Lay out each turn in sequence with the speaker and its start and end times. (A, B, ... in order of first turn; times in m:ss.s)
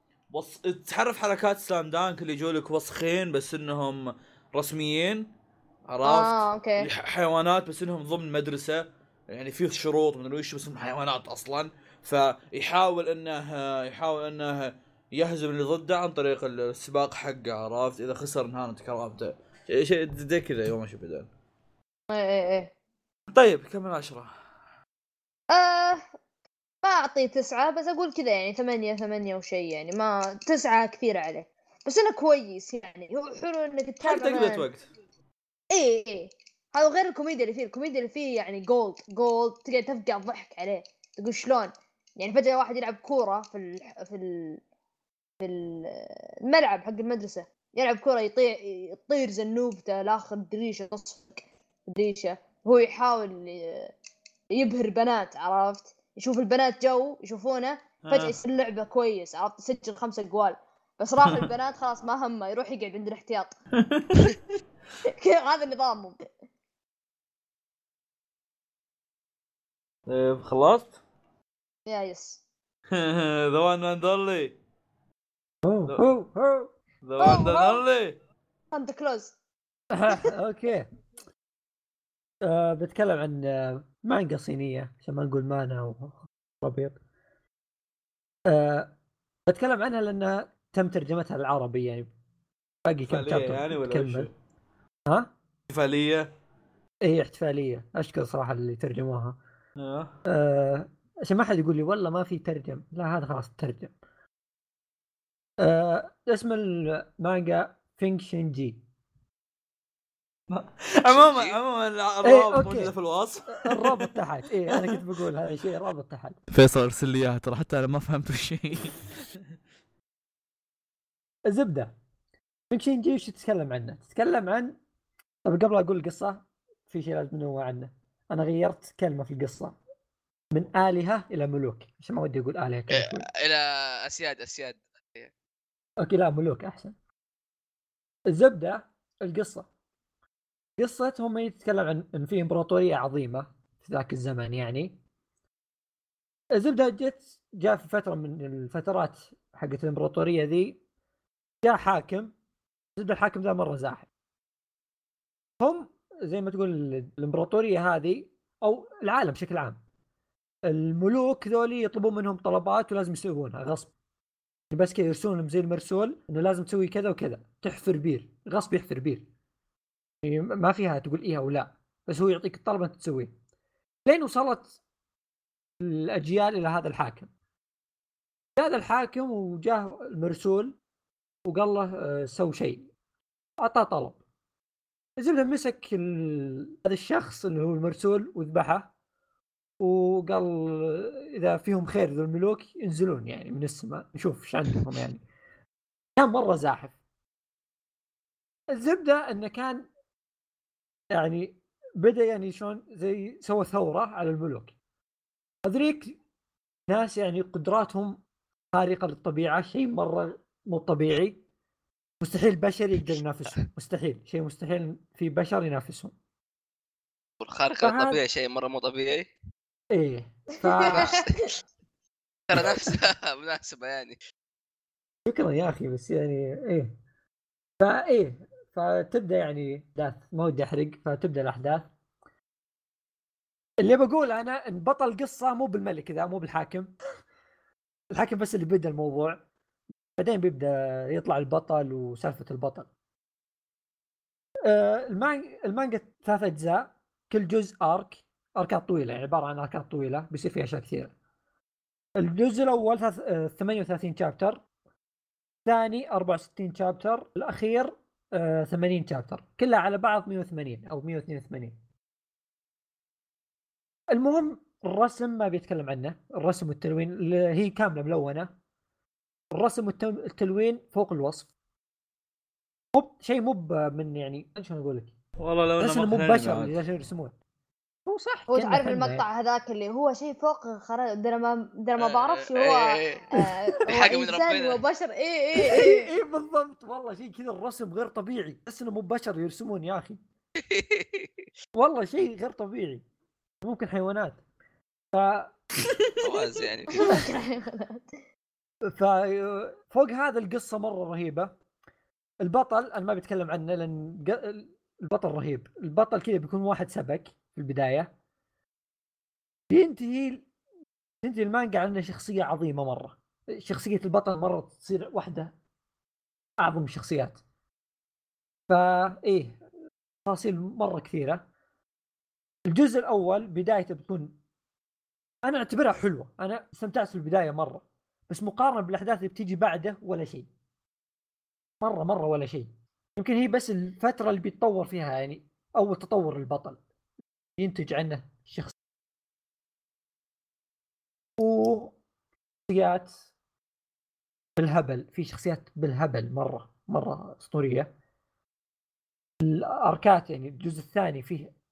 0:00.3-0:05.3 A
0:05.9-0:21.3 A
0:06.0-0:06.9 B
0:22.1-0:22.7 B
0:23.3-0:24.3 A
0:25.5-0:26.0 B
0:26.8-0:34.6 B
0:34.0-0:34.8 A
0:35.7-0:44.6 B
0:45.4-0:53.9 B
0:54.5-1:03.5 B
0:58.1-0:58.3 A
1:03.8-1:04.4 A
1:05.2-1:06.2 B
1:10.1-1:11.0 A
1:11.9-1:12.4 B
1:12.9-1:14.6 A
1:15.6-1:16.7 C
1:17.0-1:18.2 A
1:17.2-1:17.8 B
1:18.7-1:19.3 B
1:19.9-1:20.9 C
1:22.4-1:27.0 C
1:28.5-1:28.9 C
1:29.5-1:32.1 C
1:32.8-1:34.3 C
1:33.1-1:34.3 A
1:35.7-1:36.3 A
1:37.0-1:39.4 C
1:39.8-1:40.1 A
1:40.3-1:43.9 C
1:45.6-1:48.8 C
1:50.5-1:54.1 A
1:51.0-1:51.6 D
1:52.2-1:52.9 C
1:53.5-1:56.4 C
1:54.7-1:55.0 A
1:56.5-1:59.2 A
2:01.5-2:01.9 C
2:02.7-2:04.7 C
2:05.4-2:09.8 C
2:10.5-2:13.2 C
2:12.9-2:15.3 D
2:16.0-2:16.9 C
2:18.3-2:19.7 C
2:20.8-2:25.0 C
2:26.5-2:30.8 C
2:31.6-2:32.3 C
2:33.0-2:34.1 C
2:35.6-2:39.8 C
2:40.7-2:43.9 C
2:44.7-2:49.3 C
2:50.2-2:53.3 C
2:54.1-2:54.7 C
2:55.8-2:57.3 C
2:58.6-3:00.8 C
3:01.5-3:02.9 C
3:03.6-3:04.2 C
3:05.2-3:08.9 C
3:09.8-3:15.2 C
3:16.2-3:16.9 C
3:18.7-3:19.9 C
3:21.1-3:24.7 C
3:25.6-3:26.2 C
3:26.9-3:28.2 C
3:28.7-3:31.4 C
3:32.2-3:36.1 C
3:37.4-3:39.3 D
3:37.8-3:38.2 C
3:39.9-3:41.1 C
3:40.7-3:41.4 B
3:40.9-3:41.6 D
3:42.5-3:44.2 D
3:45.3-3:46.9 C
3:47.8-3:51.9 C
3:53.8-3:56.9 C
3:58.1-3:59.4 C
4:00.2-4:02.9 C
4:04.7-4:11.1 C
4:12.2-4:14.6 C
4:15.6-4:21.8 C
4:24.1-4:28.5 C
4:29.5-4:31.5 C
4:32.9-4:35.1 C
4:35.4-4:36.8 A
4:35.8-4:37.3 C
4:38.1-4:39.2 C
4:38.5-4:46.1 B
4:42.0-4:43.2 D
4:43.8-4:44.8 D
4:45.6-4:50.2 C
4:50.6-4:51.4 D
4:51.8-4:53.0 C
4:53.6-4:54.4 C
4:55.1-4:55.5 C
4:56.2-4:57.2 D
4:56.9-4:58.0 B
4:57.0-4:57.2 C
4:58.9-5:01.5 C
5:02.4-5:08.1 C
5:09.7-5:10.5 C
5:11.2-5:15.5 C
5:16.6-5:17.4 C
5:18.7-5:19.6 C
5:20.2-5:21.4 C
5:22.7-5:24.3 C
5:25.4-5:30.5 C
5:31.8-5:36.8 C
5:37.6-5:38.7 C
5:41.4-5:41.9 C
5:42.7-5:43.1 C
5:44.6-5:47.9 C
5:49.4-5:51.5 C